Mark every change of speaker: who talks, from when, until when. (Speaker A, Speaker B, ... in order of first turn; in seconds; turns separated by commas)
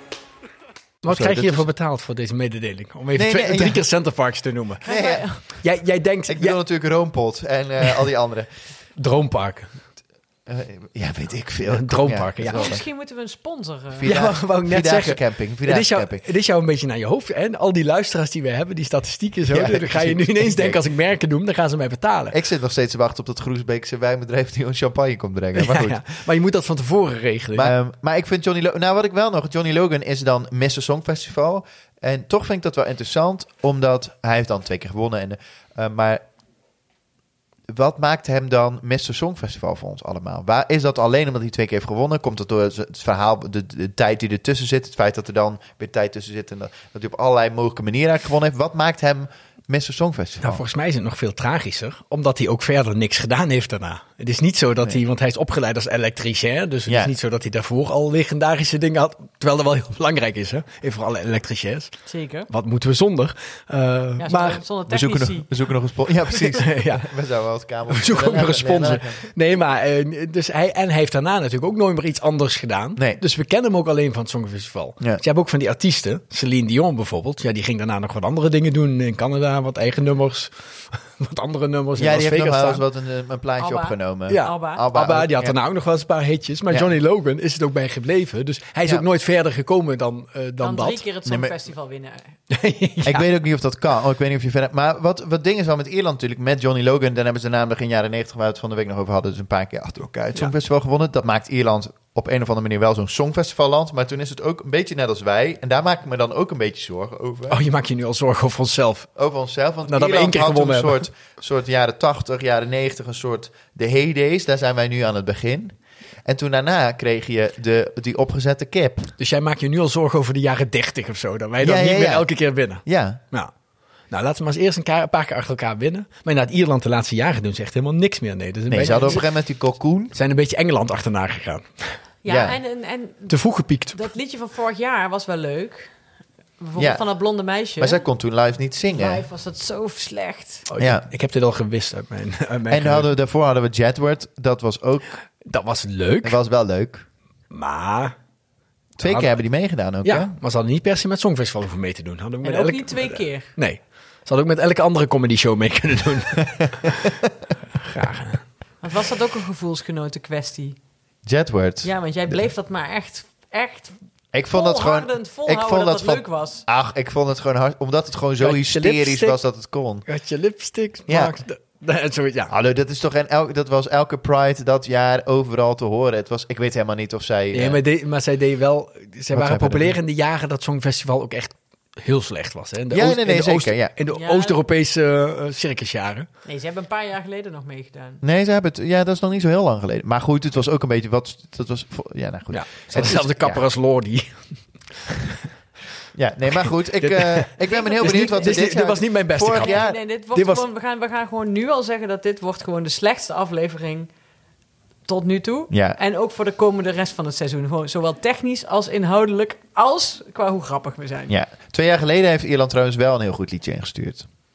Speaker A: 1.0-1.7, Speaker B: 1.0-4.8, Speaker A: 3.1-3.8, Speaker A: 4.8-5.3, Speaker C: 4.8-5.4, Speaker B: 5.5-6.6, Speaker A: 6.3-8.5, Speaker B: 9.0-9.7, Speaker A: 10.5-12.8, Speaker B: 11.7-12.8, Speaker C: 12.5-14.1, Speaker A: 13.9-16.3, Speaker B: 14.1-22.4, Speaker A: 19.5-20.8, Speaker A: 22.3-26.0, Speaker B: 25.6-27.8, Speaker A: 27.6-36.2, Speaker A: 37.7-50.6, Speaker B: 50.4-61.9, Speaker A: 56.9-57.1, Speaker C: 62.1-62.5, Speaker B: 62.5-64.6, Speaker C: 64.2-65.6, Speaker A: 64.9-69.2, Speaker B: 66.6-67.1, Speaker B: 67.9-82.8, Speaker A: 82.0-85.6, Speaker C: 83.6-84.8, Speaker B: 84.3-91.0, Speaker C: 90.6-92.3, Speaker A: 91.2-91.5, Speaker B: 92.5-93.2, Speaker A: 93.0-107.6, Speaker B: 107.5-109.1, Speaker A: 109.2-119.1, Speaker B: 109.9-111.1, Speaker B: 119.2-123.5, Speaker A: 121.6-122.3, Speaker A: 122.8-123.2, Speaker B: 124.1-129.2, Speaker A: 128.7-130.2, Speaker B: 130.1-132.0, Speaker C: 132.2-135.9, Speaker A: 132.3-132.6, Speaker B: 133.3-134.1, Speaker C: 136.6-138.0, Speaker A: 136.8-137.0, Speaker A: 137.8-139.2, Speaker C: 138.9-140.7, Speaker B: 140.7-143.1, Speaker A: 140.8-141.1, Speaker A: 142.7-145.2, Speaker B: 145.4-146.4, Speaker A: 146.2-147.1, Speaker B: 147.5-148.2, Speaker A: 149.0-150.3, Speaker B: 149.0-149.4, Speaker B: 150.0-157.1, Speaker C: 152.4-153.5, Speaker B: 157.8-158.4, Speaker C: 158.8-160.8, Speaker A: 161.2-162.4, Speaker C: 161.8-163.9, Speaker A: 164.3-170.1, Speaker C: 164.5-166.7, Speaker B: 168.4-169.4, Speaker B: 170.1-172.5, Speaker A: 171.1-171.3, Speaker A: 172.5-177.8, Speaker B: 177.5-186.3, Speaker A: 179.3-180.0, Speaker A: 182.9-183.9, Speaker C: 184.1-184.6, Speaker C: 186.4-188.2, Speaker A: 188.2-193.6, Speaker B: 192.5-194.6, Speaker A: 196.1-200.0, Speaker B: 197.0-199.8, Speaker C: 197.7-198.7, Speaker C: 199.5-204.1, Speaker B: 200.3-200.7, Speaker C: 205.1-211.3, Speaker A: 205.7-206.0, Speaker A: 211.3-214.3